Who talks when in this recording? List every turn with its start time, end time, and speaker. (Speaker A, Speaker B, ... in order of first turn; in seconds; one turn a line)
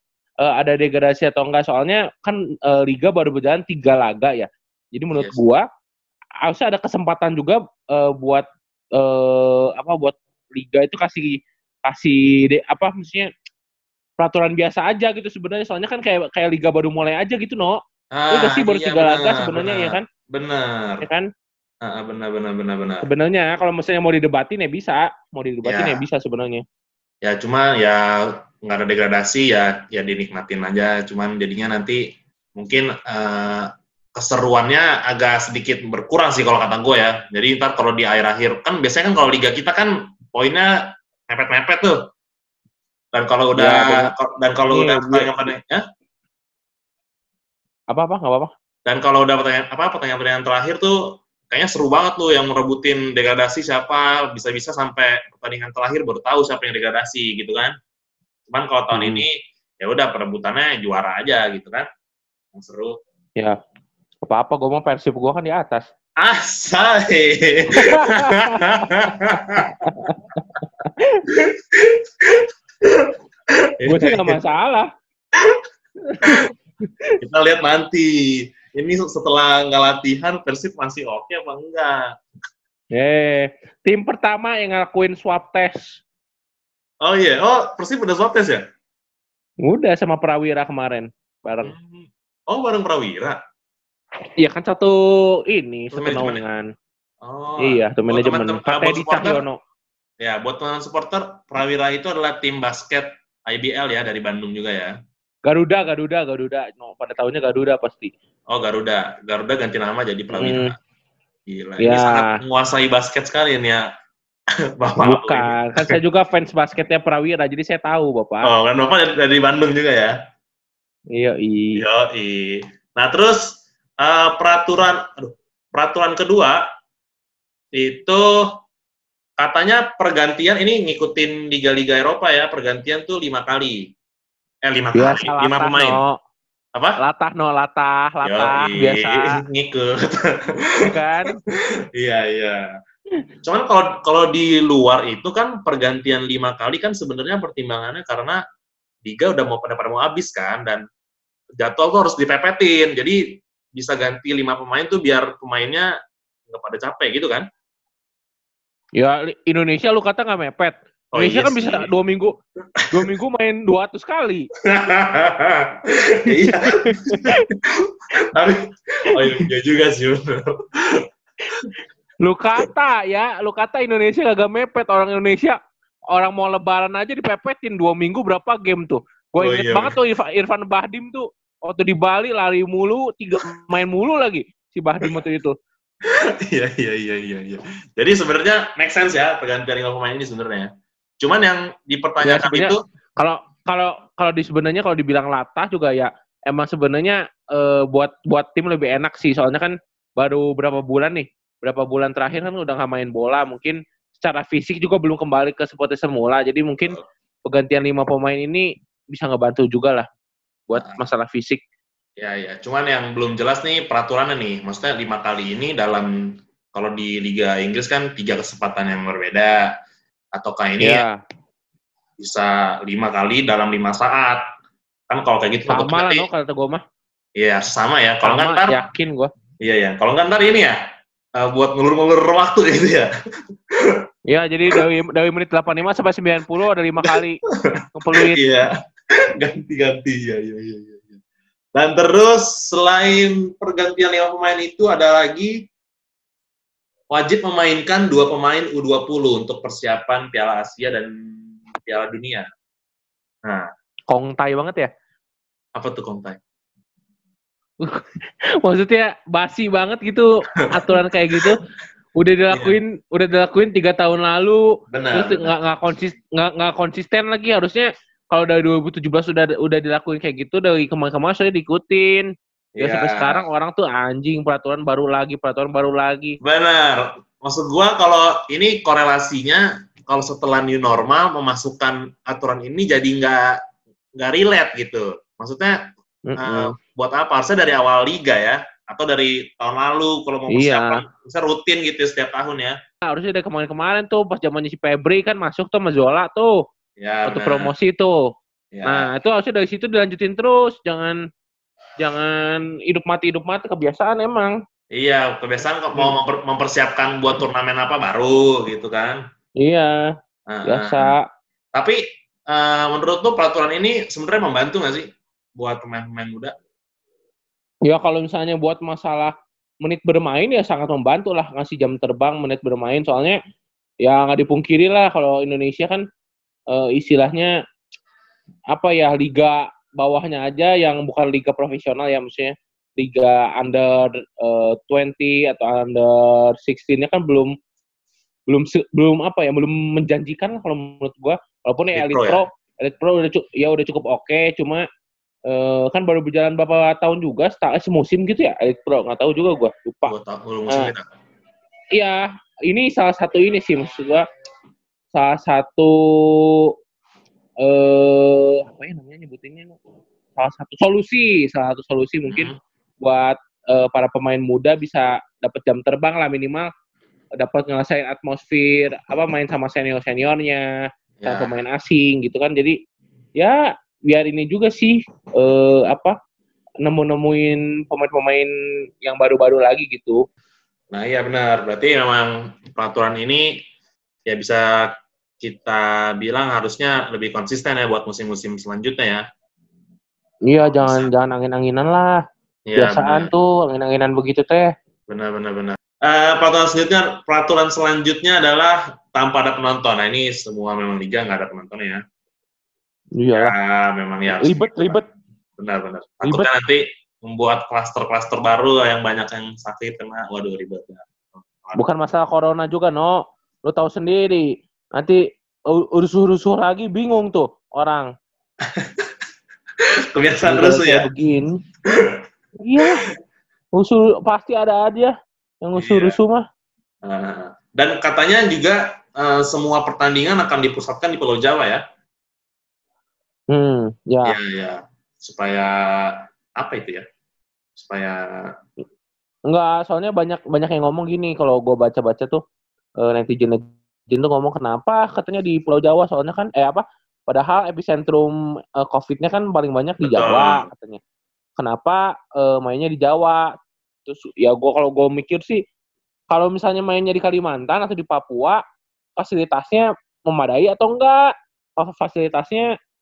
Speaker A: 0.4-5.7
Speaker B: 5.2-5.4
Speaker A: 6.5-13.3
Speaker A: 14.2-17.8
Speaker B: 18.1-21.1
Speaker A: 18.3-20.1
Speaker A: 21.0-21.3
Speaker B: 21.8-23.1
Speaker A: 23.0-26.6
Speaker B: 25.6-26.0
Speaker B: 27.2-42.1
Speaker B: 43.1-45.8
Speaker A: 43.6-44.1
Speaker A: 44.7-45.4
Speaker A: 47.9-48.5
Speaker B: 48.9-57.7
Speaker B: 58.5-61.9
Speaker A: 58.9-59.2
Speaker B: 62.5-63.0
Speaker A: 64.2-65.8
Speaker B: 66.2-70.1
Speaker A: 67.8-68.9
Speaker A: 69.6-71.3
Speaker B: 71.3-74.4
Speaker A: 73.9-74.9
Speaker B: 75.3-75.6
Speaker A: 76.1-77.2
Speaker B: 76.2-76.5
Speaker B: 77.2-82.1
Speaker A: 82.9-86.0
Speaker B: 87.0-88.6
Speaker A: 89.6-91.7
Speaker B: 91.6-93.4
Speaker A: 94.4-96.7
Speaker B: 95.9-96.4
Speaker B: 97.2-99.4
Speaker A: 97.6-99.6
Speaker B: 100.2-105.0
Speaker A: 105.5-108.1
Speaker B: 108.5-110.8
Speaker A: 110.3-110.7
Speaker B: 111.5-113.9
Speaker A: 111.8-112.4
Speaker B: 114.8-116.0
Speaker A: 115.0-118.5
Speaker B: 118.4-120.2
Speaker A: 121.1-121.8
Speaker B: 121.8-126.6
Speaker B: 127.7-128.4
Speaker B: 129.4-133.9
Speaker B: 134.6-136.0
Speaker A: 134.9-136.2
Speaker A: 137.0-139.4
Speaker B: 138.2-140.9
Speaker A: 140.8-141.4
Speaker B: 141.5-142.7
Speaker B: 143.4-148.4
Speaker B: 149.0-150.8
Speaker B: 151.6-155.9
Speaker B: 156.5-157.5
Speaker A: 159.0-162.3
Speaker B: 161.1-161.9
Speaker B: 162.8-163.1
Speaker A: 162.9-164.5
Speaker B: 164.6-171.7
Speaker A: 166.3-167.5
Speaker A: 169.2-169.4
Speaker A: 172.2-175.6
Speaker A: 176.1-185.6
Speaker B: 179.4-180.0
Speaker B: 186.1-192.8
Speaker A: 192.2-210.1
Speaker A: 210.7-211.6
Speaker B: 212.2-219.7
Speaker B: 220.3-221.1
Speaker A: 220.8-221.2
Speaker B: 222.2-224.4
Speaker B: 225.1-226.3
Speaker A: 225.7-226.8
Speaker B: 227.4-228.8
Speaker A: 228.2-229.3
Speaker B: 229.6-230.8
Speaker B: 231.4-233.1
Speaker B: 233.7-234.0
Speaker A: 234.3-237.4
Speaker B: 237.0-238.7
Speaker A: 237.9-238.4
Speaker B: 239.4-241.2
Speaker B: 241.8-245.6
Speaker B: 247.1-252.5
Speaker A: 254.1-254.9
Speaker B: 255.8-256.4
Speaker A: 257.8-261.6
Speaker B: 260.6-261.6
Speaker A: 262.2-272.3
Speaker B: 264.9-265.5
Speaker B: 272.8-273.4
Speaker A: 272.8-276.4
Speaker B: 276.4-283.6
Speaker B: 284.2-285.8
Speaker A: 286.3-286.7
Speaker B: 286.4-292.8
Speaker A: 290.5-291.0
Speaker A: 293.1-296.6
Speaker B: 297.0-297.7
Speaker A: 297.3-298.2
Speaker B: 298.7-299.1
Speaker A: 298.9-301.2
Speaker A: 302.0-304.6
Speaker B: 304.9-309.2
Speaker A: 309.6-310.1
Speaker B: 310.5-311.1
Speaker A: 310.7-311.2
Speaker B: 311.7-316.5
Speaker A: 317.9-323.4
Speaker A: 324.0-326.0
Speaker A: 326.7-327.5
Speaker A: 328.7-337.5
Speaker A: 338.5-344.9
Speaker B: 341.9-342.4
Speaker A: 345.5-350.1
Speaker B: 350.1-351.1
Speaker A: 351.9-354.2
Speaker A: 355.1-356.7
Speaker A: 357.6-359.8
Speaker A: 360.4-366.7
Speaker B: 362.3-362.6
Speaker A: 367.4-370.6
Speaker B: 371.2-371.5
Speaker A: 371.3-372.8
Speaker A: 373.4-376.2
Speaker A: 376.8-378.5
Speaker A: 379.0-380.2
Speaker B: 380.9-383.6
Speaker B: 384.3-389.2
Speaker A: 390.5-392.2
Speaker B: 390.7-391.1
Speaker B: 392.7-393.3
Speaker A: 392.8-394.7
Speaker B: 395.1-402.0
Speaker A: 403.2-403.5
Speaker B: 403.3-405.0
Speaker A: 404.3-405.1
Speaker B: 405.6-411.8
Speaker A: 411.8-418.1
Speaker B: 418.6-419.1
Speaker B: 420.1-421.1
Speaker A: 420.5-421.6
Speaker B: 421.9-422.2
Speaker A: 422.6-423.1
Speaker A: 423.8-425.1
Speaker A: 425.6-426.4
Speaker B: 425.8-426.2
Speaker B: 427.0-431.8
Speaker A: 433.5-434.4
Speaker B: 434.2-437.1
Speaker B: 437.8-438.4
Speaker A: 439.5-442.4
Speaker A: 443.0-451.0
Speaker B: 450.0-450.6
Speaker A: 451.6-453.5
Speaker A: 454.1-455.6
Speaker A: 456.3-458.6
Speaker A: 459.2-462.7